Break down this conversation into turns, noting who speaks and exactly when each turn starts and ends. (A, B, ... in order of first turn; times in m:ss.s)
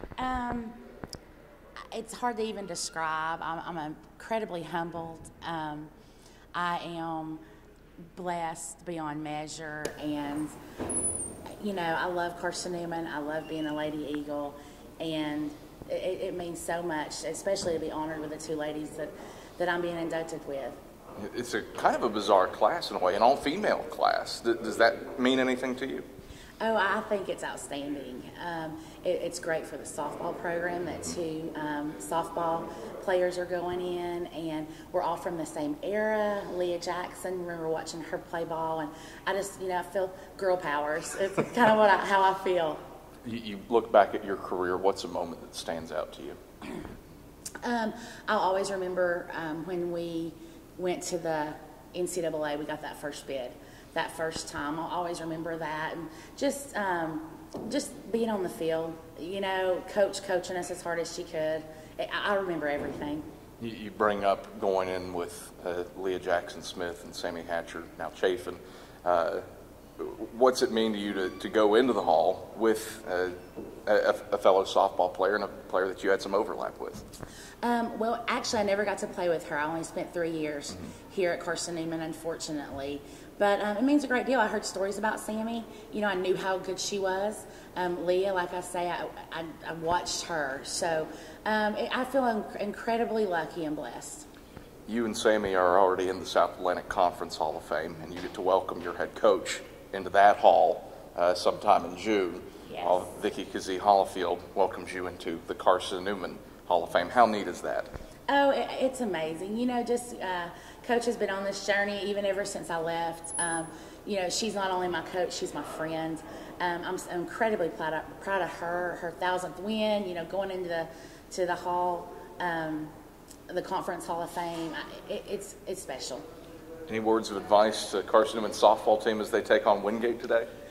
0:00.2-0:00.8 A
0:01.9-0:05.9 A
0:06.5-0:07.4 A
0:08.1-0:10.5 A
0:11.5-0:20.8 A
0:21.2-0:26.0 B
0:26.6-0:42.8 A
0:43.2-0:46.4 B
0:47.6-1:03.2 A
1:03.6-1:09.4 B
1:10.0-1:17.0 B
1:17.6-1:34.2 A
1:34.9-1:47.9 B
1:42.7-1:43.0 A
1:48.3-2:02.9 A
2:03.5-2:06.2 A
2:06.9-2:10.5 B